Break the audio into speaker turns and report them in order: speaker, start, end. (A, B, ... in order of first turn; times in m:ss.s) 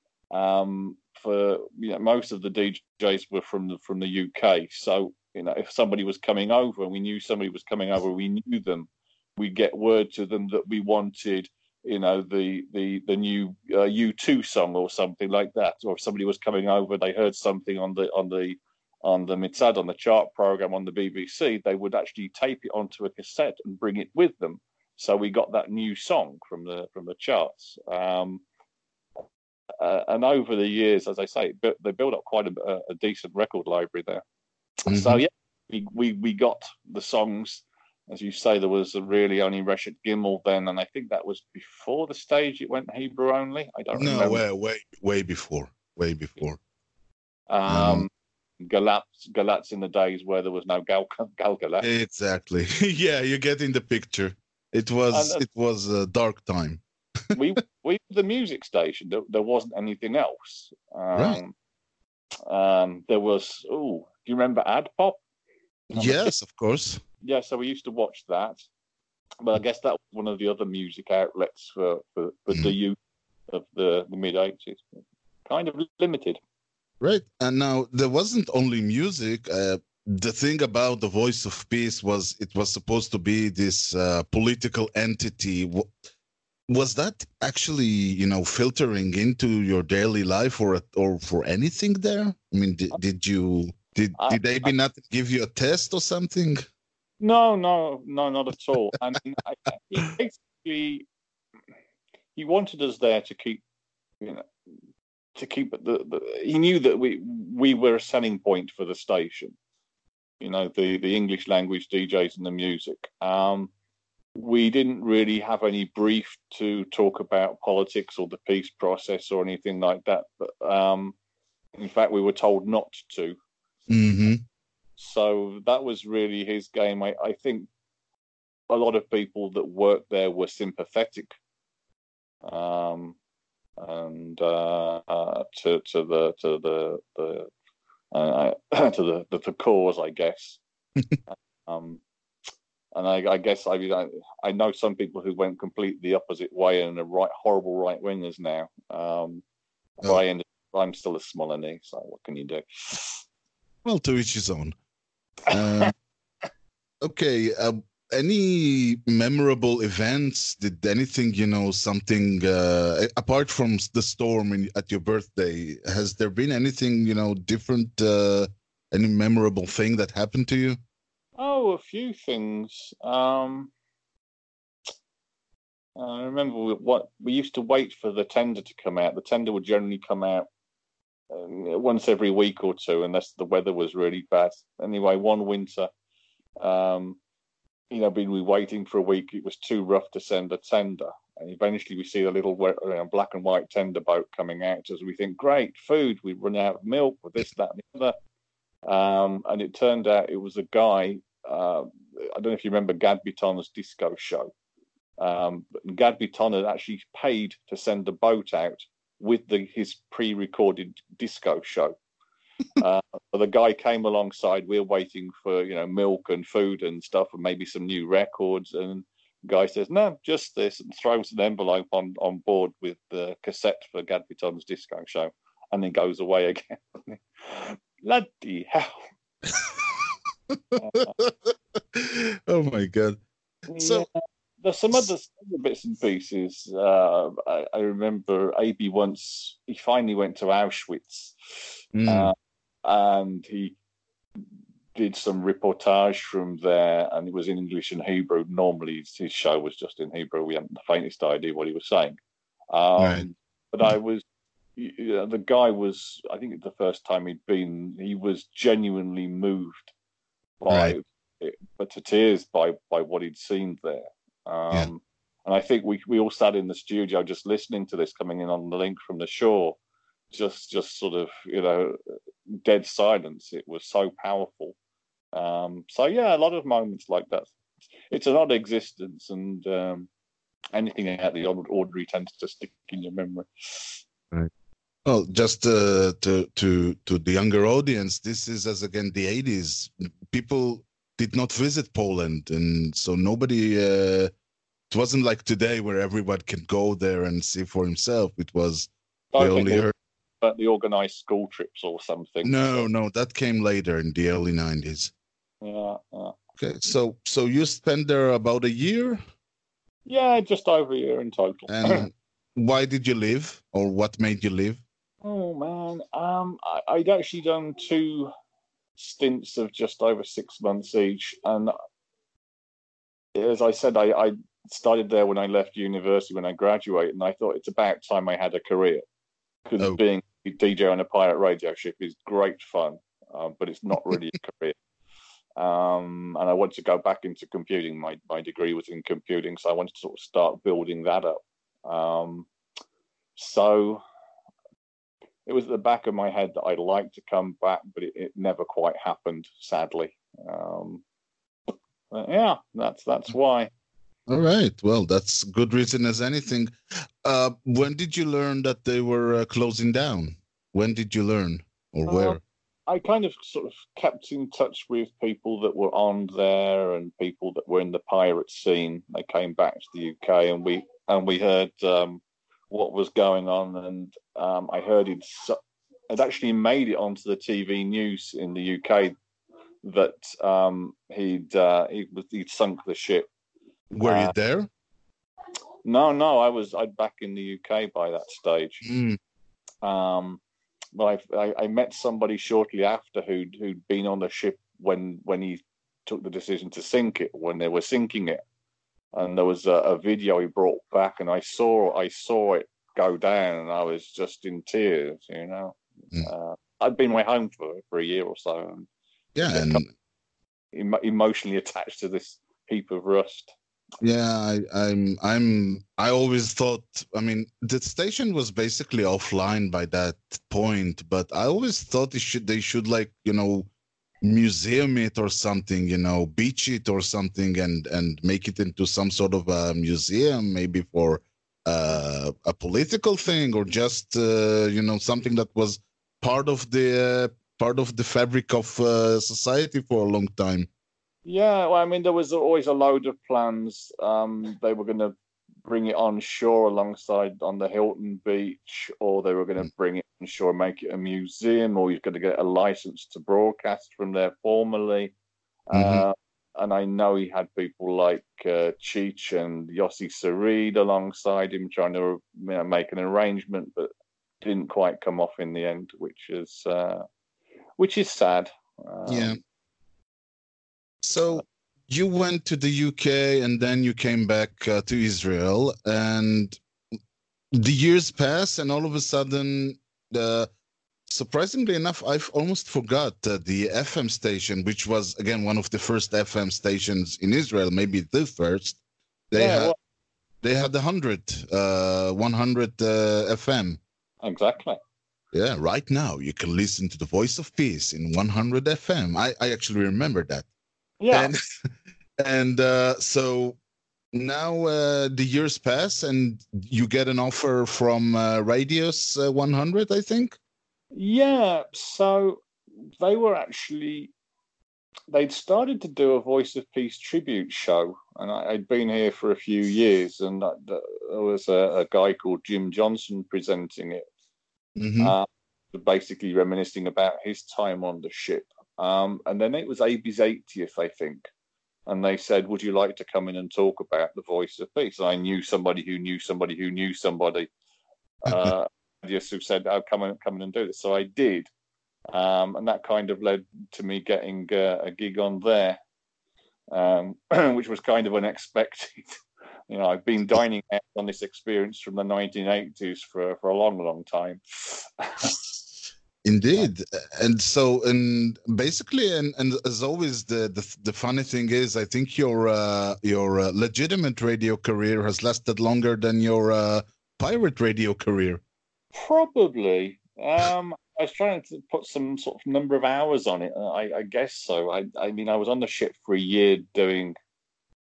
0:00.3-0:28.4 A
0:29.8-0:34.2 A
0:34.9-0:44.4 A
0:34.9-0:35.2 B
0:43.9-0:46.6 B
0:47.5-0:48.1 A
0:47.7-0:48.1 B
0:48.6-0:51.9 A
0:51.8-0:56.8 B
0:55.1-0:55.4 A
0:57.3-1:01.5 A
1:01.1-1:01.4 B
1:02.5-1:05.2 A
1:05.9-1:07.0 B
1:05.9-1:06.3 A
1:07.2-1:08.6 A
1:09.4-1:13.0 A
1:13.5-1:14.8 A
1:15.4-1:16.4 A
1:17.0-1:25.9 B
1:26.7-1:36.6 B
1:34.2-1:34.7 A
1:37.2-1:41.0 A
1:42.4-1:43.6 A
1:44.2-1:44.5 A
1:45.4-1:49.6 A
1:50.4-1:53.7 A
1:54.4-2:01.1 A
2:01.8-2:03.4 A
2:03.9-2:04.4 B
2:05.0-2:07.7 A
2:08.7-2:11.3 A
2:12.4-2:13.2 A
2:13.8-2:17.5 A
2:18.1-2:20.6 A
2:21.3-2:22.0 A
2:22.9-2:29.4 A
2:30.0-2:33.2 A
2:33.8-2:34.8 B
2:35.5-2:35.9 B
2:37.0-2:50.8 B
2:51.4-2:53.7 A
2:56.0-3:00.5 A
3:01.3-3:05.9 A
3:06.6-3:07.2 A
3:07.9-3:18.1 A
3:18.8-3:24.5 A
3:25.2-3:32.0 A
3:32.8-3:49.0 A
3:50.5-3:53.2 B
3:50.8-3:51.1 A
3:53.7-4:03.7 A
3:53.8-3:54.0 B
4:01.9-4:02.3 B
4:04.9-4:12.2 A
4:12.7-4:14.2 A
4:13.0-4:13.2 B
4:14.8-4:19.9 A
4:20.6-4:29.8 A
4:20.7-4:21.0 B
4:30.3-4:32.0 A
4:32.5-4:34.7 A
4:35.3-4:37.5 A
4:38.1-4:40.1 A
4:40.7-4:44.0 A
4:45.0-4:54.3 B
4:54.9-4:59.9 B
4:59.3-4:59.9 A
5:00.4-5:02.9 A
5:02.4-5:05.1 B
5:05.6-5:06.3 A
5:06.6-5:09.2 B
5:10.1-5:12.0 A
5:11.7-5:14.8 B
5:15.2-5:18.3 A
5:19.0-5:21.7 A
5:23.3-5:29.0 A
5:29.6-5:34.8 A
5:35.6-5:42.5 A
5:43.4-5:44.0 A
5:45.4-5:51.0 A
5:52.1-5:53.7 A
5:54.3-6:02.4 B
6:02.1-6:15.6 A
6:16.1-6:19.1 A
6:19.8-6:23.3 A
6:23.9-6:24.7 B
6:24.0-6:24.3 A
6:25.8-6:28.8 A
6:28.8-6:29.2 B
6:29.8-6:30.4 A
6:31.0-6:38.4 A
6:39.1-6:48.9 A
6:49.3-6:49.9 B
6:49.5-6:49.8 A
6:50.7-6:53.5 A
6:54.0-7:03.7 B
7:04.2-7:20.7 B
7:21.2-7:25.1 A
7:25.6-7:35.1 A
7:35.7-7:43.9 A
7:35.7-7:36.0 B
7:44.4-7:47.0 A
7:47.8-7:49.4 A
7:49.1-7:49.4 B
7:51.0-7:56.6 B
7:57.5-8:00.5 B
8:01.1-8:08.8 B
8:09.3-8:09.7 B
8:09.3-8:09.8 A
8:10.4-8:13.8 B
8:14.2-8:14.8 A
8:15.3-8:20.4 B
8:21.0-8:21.3 A
8:21.1-8:21.4 B
8:22.2-8:23.6 B
8:24.1-8:30.4 B
8:30.9-8:32.4 A
8:33.0-8:34.1 A
8:35.1-8:44.0 A
8:44.8-8:45.1 B
8:45.0-8:51.3 A
8:51.9-8:57.5 A
8:58.2-9:01.5 A
9:02.1-9:05.8 A
9:06.7-9:09.1 A
9:09.7-9:15.4 A
9:16.2-9:28.4 B
9:28.9-9:37.2 A